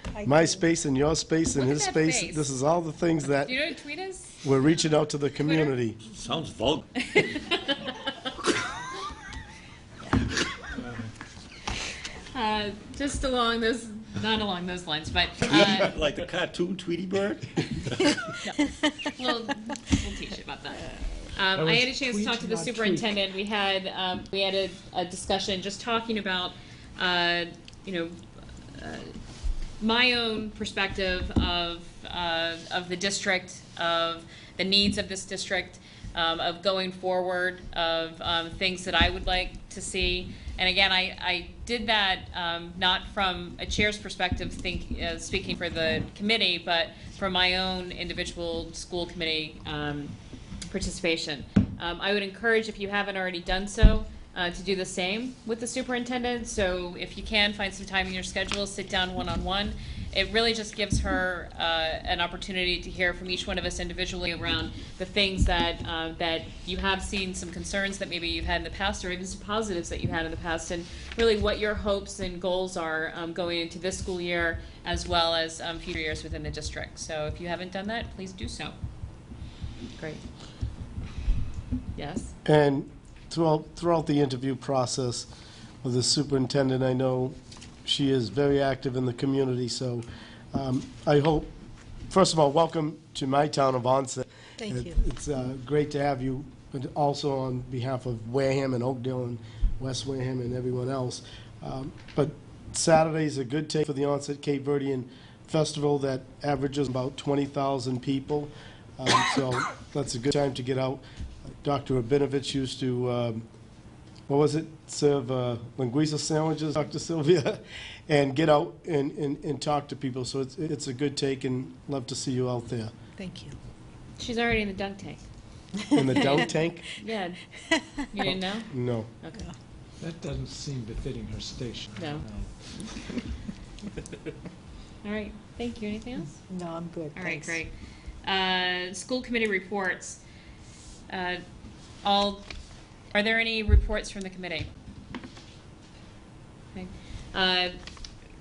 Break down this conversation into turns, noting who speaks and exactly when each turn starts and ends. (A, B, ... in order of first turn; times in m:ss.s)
0:00.1-0:00.7 A
0:00.2-0:03.6 B
0:01.6-0:02.5 C
0:03.4-0:04.4 C
0:04.4-0:06.0 B
0:06.1-0:06.9 D
0:07.1-0:08.1 C
0:12.3-0:16.0 C
0:15.4-0:18.2 D
0:18.4-0:28.2 C
0:21.6-0:23.1 E
0:28.7-0:29.1 C
0:29.8-0:50.2 C
0:50.7-1:18.8 C
1:20.0-1:20.2 C
1:22.0-1:22.3 C
1:22.4-1:25.3 B
1:25.8-1:31.5 B
1:32.1-1:51.0 B
1:34.6-1:35.0 A
1:51.6-1:53.5 B
1:54.3-2:02.9 B
2:03.2-2:03.6 A
2:04.2-2:05.2 C
2:05.9-2:06.9 B
2:06.2-2:07.4 C
2:08.0-2:09.5 C
2:08.2-2:09.1 B
2:10.0-2:12.5 E
2:12.0-2:12.9 C
2:15.0-2:16.4 C
2:16.4-2:17.6 A
2:17.2-2:17.7 C
2:18.2-2:20.2 C
2:21.1-2:21.4 C
2:22.0-2:22.5 C
2:23.1-2:24.7 C
2:26.7-2:27.8 C